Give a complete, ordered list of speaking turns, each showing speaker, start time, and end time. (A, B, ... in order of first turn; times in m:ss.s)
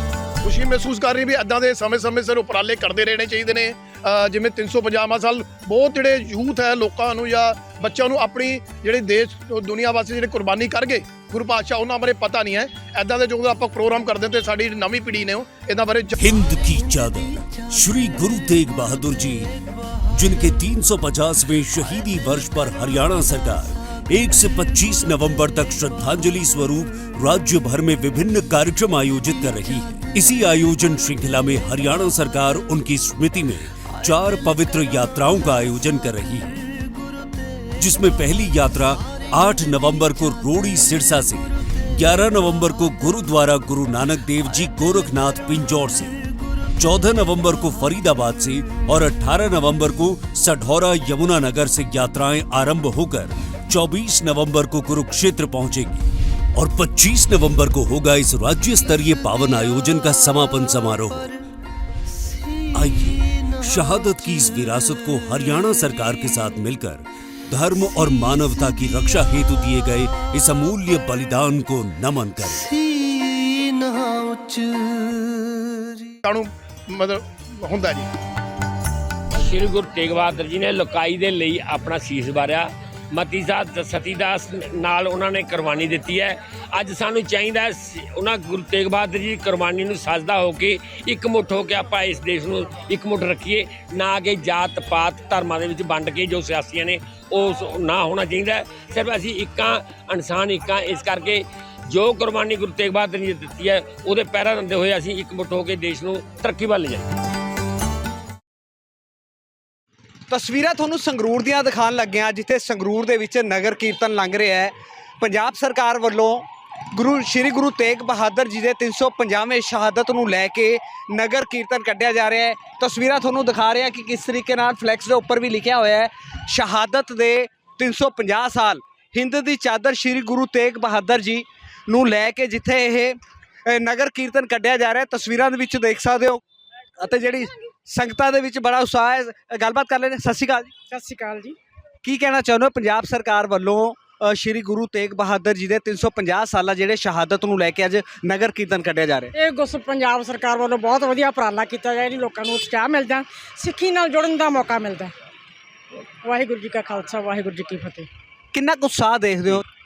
0:00.4-0:16.2 A
0:16.2-0:19.5 B
0:20.1-0:36.6 B
0:37.8-0:46.2 B
0:46.8-1:01.3 B
1:02.7-1:12.7 B
1:17.1-1:18.1 A
1:19.4-1:47.1 C
1:50.3-2:16.4 D
2:17.0-2:20.7 D
2:20.9-2:21.6 E
2:22.0-2:29.3 D
2:29.4-2:35.1 E
2:36.2-2:38.1 E
2:38.5-2:39.6 D